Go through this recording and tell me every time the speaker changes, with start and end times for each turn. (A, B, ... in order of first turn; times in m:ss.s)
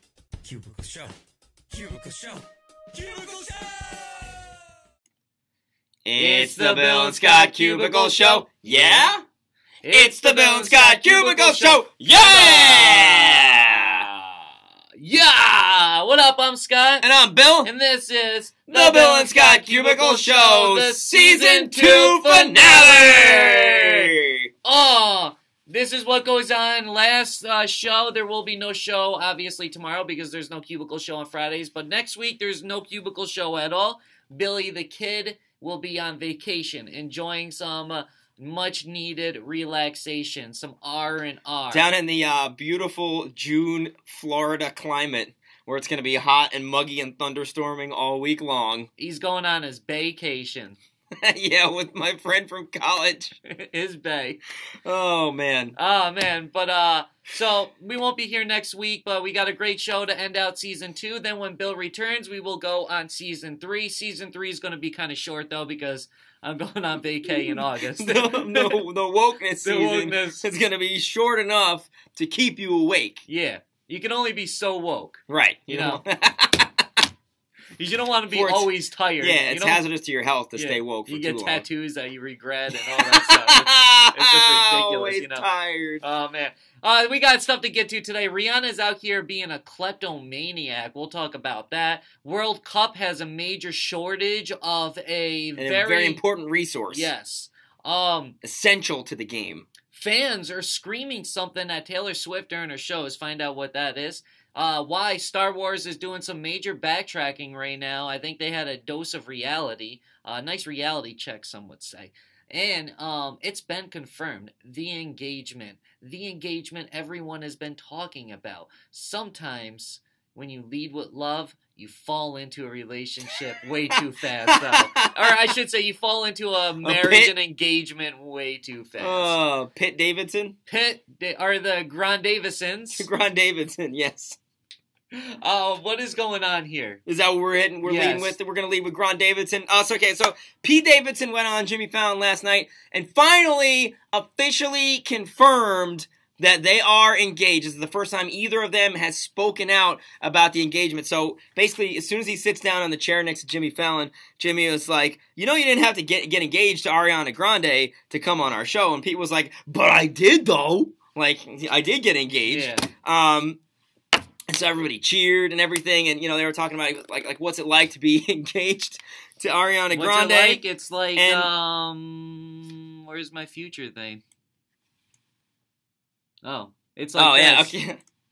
0:00.4-0:01.1 A
0:01.7-0:02.4 A
0:02.0-0:02.4 B
0:02.9-0:04.4 A
0:06.0-0:09.2 B
0:06.2-0:09.1 C
0:09.8-0:14.4 C
0:09.9-0:14.1 B
0:15.0-0:17.1 C
0:17.0-0:17.7 B
0:17.6-0:24.1 C
0:18.7-0:24.5 B
0:24.6-0:41.9 C
0:41.7-0:48.9 B
0:49.0-0:50.8 C
0:51.1-0:53.4 B
0:53.4-0:54.4 C
0:54.8-0:55.7 B
0:55.8-1:08.8 C
1:07.2-1:13.2 B
1:09.6-1:10.4 C
1:13.3-1:16.0 C
1:15.3-1:16.8 B
1:17.8-1:19.8 C
1:18.3-1:21.6 B
1:20.6-1:25.4 C
1:22.9-1:26.0 B
1:26.0-1:36.2 C
1:35.6-1:37.1 B
1:36.9-1:38.4 C
1:38.4-1:39.7 B
1:39.9-2:09.4 C
2:04.5-2:05.4 B
2:06.8-2:07.3 B
2:09.0-2:10.6 B
2:10.7-2:13.1 C
2:12.9-2:14.4 B
2:15.1-2:17.0 C
2:17.0-2:43.6 B
2:17.8-2:18.4 C
2:42.5-2:42.9 C
2:44.5-2:50.6 B
2:49.9-2:54.2 C
2:51.1-2:51.5 B
2:56.4-2:57.7 C
2:57.2-2:58.0 B